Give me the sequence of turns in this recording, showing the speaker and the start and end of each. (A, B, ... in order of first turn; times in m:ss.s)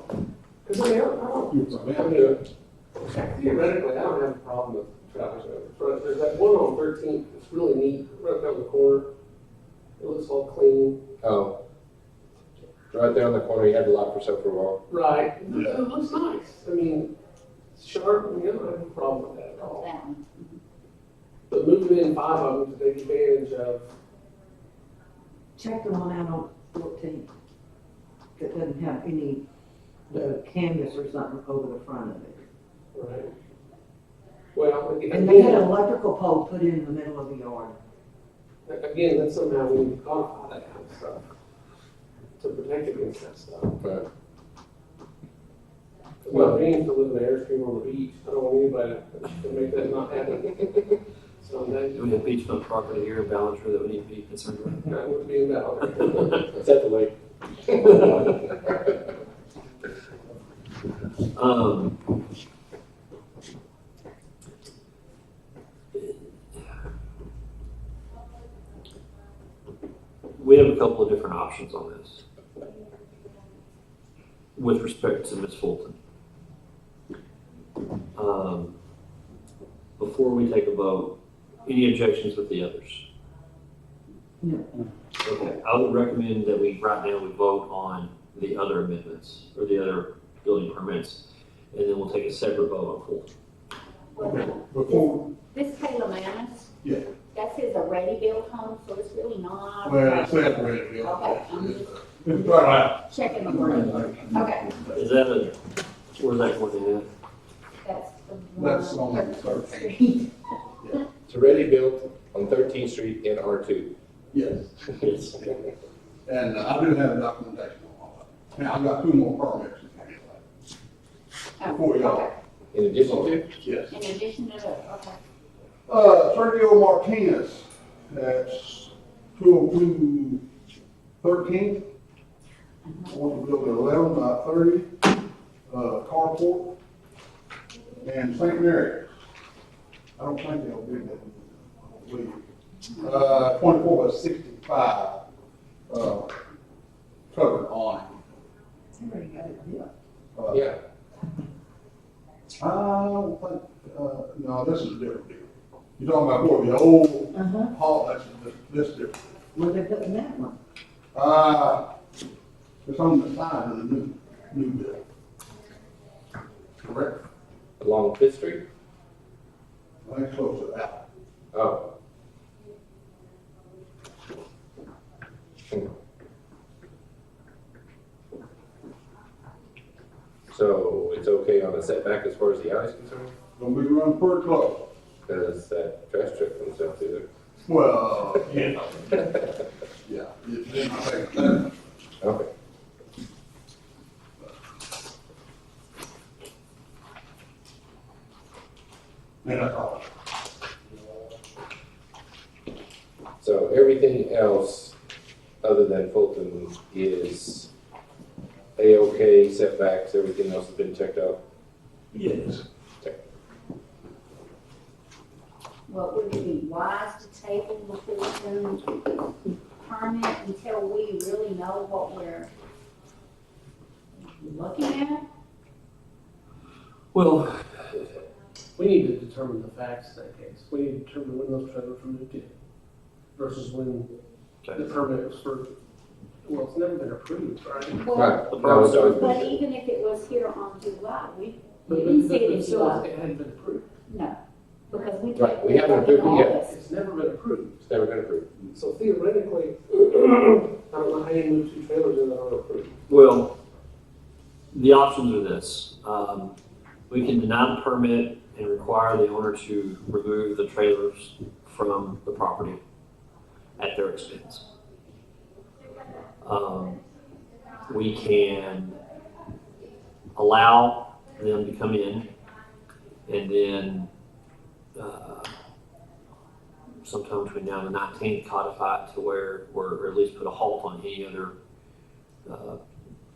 0:00.6-0:02.4 A
0:01.5-0:02.1 B
0:03.0-0:09.1 A
0:10.0-0:11.0 A
0:11.2-0:11.6 C
0:12.9-0:14.8 C
0:14.9-0:17.1 A
0:15.5-0:15.8 B
0:17.7-0:19.9 A
0:19.6-0:20.6 D
0:21.5-0:23.9 A
0:25.6-0:27.3 E
0:28.4-0:29.4 E
0:30.1-0:32.4 E
0:32.9-0:33.3 A
0:34.5-0:35.7 A
0:35.1-0:37.7 E
0:38.6-0:41.2 A
0:42.4-0:43.8 A
0:43.8-0:44.1 C
0:46.2-0:52.1 A
0:46.3-0:46.6 C
0:51.9-0:54.8 F
0:54.8-0:56.5 A
0:56.5-0:58.8 C
1:01.3-1:02.0 F
1:10.4-1:12.2 F
1:14.6-1:16.0 F
1:18.2-1:18.7 F
1:20.0-1:23.0 F
1:24.4-1:24.7 E
1:25.2-1:33.3 F
1:34.1-1:36.7 D
1:34.2-1:35.3 B
1:37.3-1:41.9 D
1:39.8-1:45.0 B
1:43.0-1:44.7 D
1:44.9-1:45.6 F
1:46.2-1:47.1 F
1:47.8-1:50.4 D
1:48.6-1:50.0 B
1:51.3-1:53.9 C
1:54.3-1:55.6 B
1:55.0-1:55.3 C
1:56.2-2:00.4 B
2:01.6-2:02.3 D
2:01.7-2:02.3 B
2:02.7-2:03.5 C
2:03.0-2:04.0 B
2:03.9-2:05.2 D
2:05.9-2:10.4 B
2:11.2-2:11.9 B
2:12.8-2:13.3 D
2:13.1-2:14.9 B
2:15.7-2:16.8 B
2:18.0-2:19.1 B
2:20.2-2:22.4 B
2:23.0-2:25.2 B
2:25.9-2:26.3 B
2:27.3-2:28.2 B
2:29.0-2:29.9 E
2:30.3-2:30.7 B
2:30.5-2:30.8 C
2:32.6-2:39.2 B
2:37.3-2:37.7 E
2:39.5-2:40.5 E
2:41.1-2:41.9 B
2:42.8-2:45.0 B
2:46.8-2:47.2 B
2:47.8-2:48.6 C
2:50.0-2:51.0 B
2:51.5-2:51.9 C
3:00.5-3:03.3 C
3:03.6-3:04.9 B
3:05.3-3:07.3 C
3:07.6-3:09.0 B
3:10.0-3:11.7 B
3:12.2-3:12.5 C
3:19.4-3:20.1 B
3:23.4-3:25.0 C
3:25.6-3:27.7 C
3:28.8-3:31.4 C
3:35.9-3:38.8 D
3:39.8-3:42.5 D
3:44.2-3:45.2 D
3:47.1-3:48.1 F
3:48.8-3:52.5 A
3:53.4-3:54.1 A
3:54.8-3:55.7 A
3:56.4-3:58.1 A
3:57.9-4:03.1 D
3:58.1-3:59.6 C
3:58.3-3:59.4 F
4:01.9-4:03.8 A
4:04.1-4:04.4 D
4:04.9-4:06.7 D
4:05.3-4:06.6 C
4:06.1-4:07.8 A
4:07.8-4:08.5 C
4:08.7-4:12.9 A
4:13.1-4:13.6 F
4:14.7-4:16.6 F
4:17.1-4:22.8 F
4:23.8-4:24.6 F
4:26.4-4:27.0 F
4:27.9-4:29.0 F
4:30.4-4:32.3 F
4:33.3-4:34.1 F
4:35.0-4:35.5 F
4:37.0-4:41.6 F
4:42.4-4:42.8 F